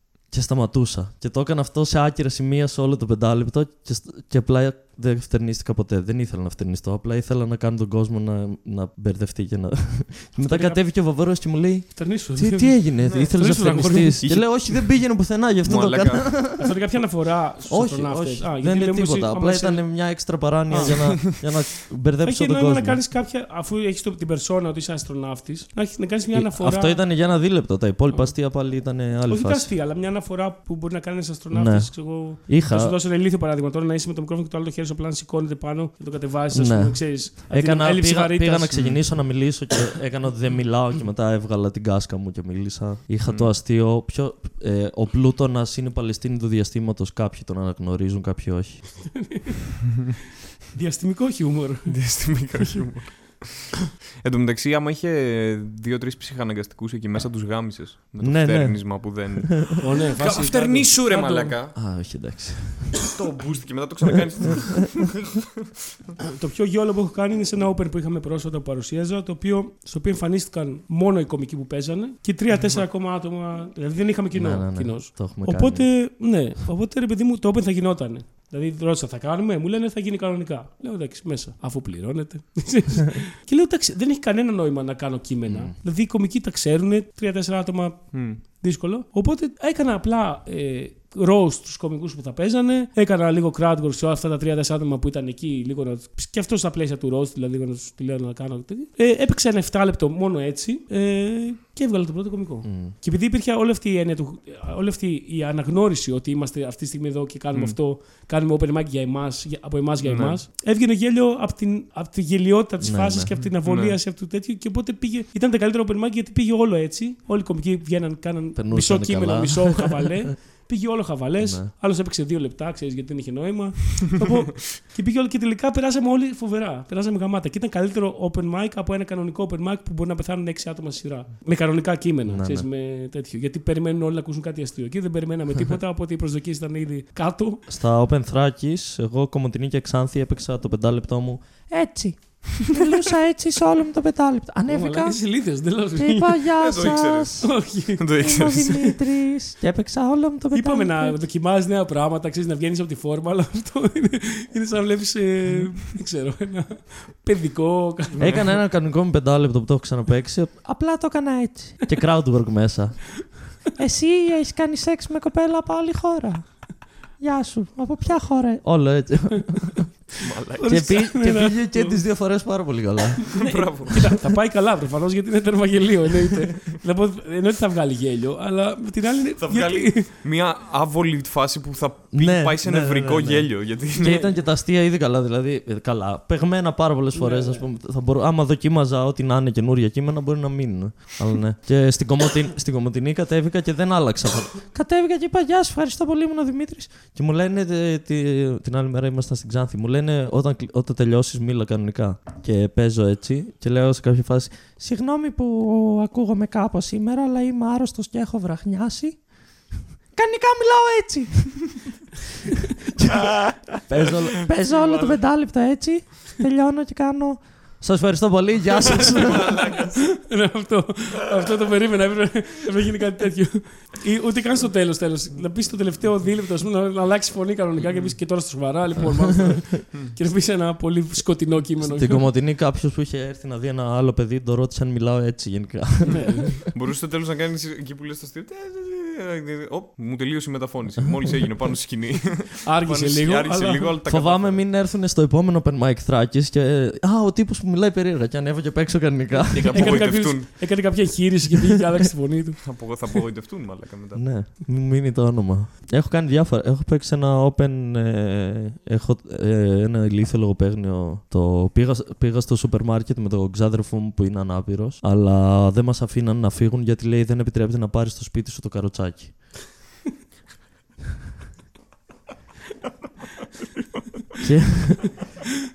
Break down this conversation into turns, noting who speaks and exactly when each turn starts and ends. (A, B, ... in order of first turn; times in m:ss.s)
0:00.3-0:16.8 A
0:10.4-0:10.8 B
0:11.9-0:14.6 B
0:14.7-0:16.4 C
0:16.5-0:21.5 B
0:17.6-0:23.0 A
0:20.8-0:21.4 C
0:22.2-0:27.1 B
0:26.3-0:29.7 A
0:28.1-0:28.4 B
0:29.3-0:38.8 B
0:31.5-0:33.0 A
0:36.5-0:49.4 A
0:38.7-0:39.2 C
0:49.2-0:49.7 B
0:50.7-0:52.6 B
0:51.9-1:01.8 C
0:58.2-0:59.5 A
0:59.8-1:01.6 B
1:01.7-1:03.0 A
1:03.1-1:05.2 C
1:06.3-2:17.6 B
1:14.3-1:15.9 A
1:25.4-1:25.8 A
1:28.1-1:28.4 C
1:42.6-1:43.0 A
1:47.5-1:47.8 C
1:50.0-1:50.4 C
1:52.8-1:53.4 A
1:53.4-1:54.0 C
1:58.5-2:00.0 A
2:01.4-2:01.7 A
2:12.3-2:12.7 A
2:17.7-2:27.6 A
2:24.7-2:26.7 B
2:26.6-2:28.9 C
2:27.4-2:29.0 B
2:28.1-2:31.2 A
2:30.5-2:38.4 B
2:38.2-2:38.6 C
2:38.2-2:54.0 A
2:50.2-2:51.0 C
2:50.6-2:52.0 B
2:53.3-3:00.1 B
2:53.4-2:54.1 C
2:59.4-3:04.2 C
3:02.1-3:32.0 A
3:07.1-3:07.7 B
3:33.0-3:39.6 A
3:34.7-3:35.2 C
3:39.4-3:40.0 C
3:40.2-3:52.3 B
3:51.8-3:56.7 A
3:56.2-3:56.5 B
3:56.7-4:04.6 C
4:01.0-4:01.3 A
4:02.6-4:03.9 B
4:04.0-4:10.3 A
4:09.5-4:11.0 C
4:09.6-4:13.0 B
4:12.6-4:14.2 C
4:14.1-4:29.6 A
4:34.4-4:35.1 A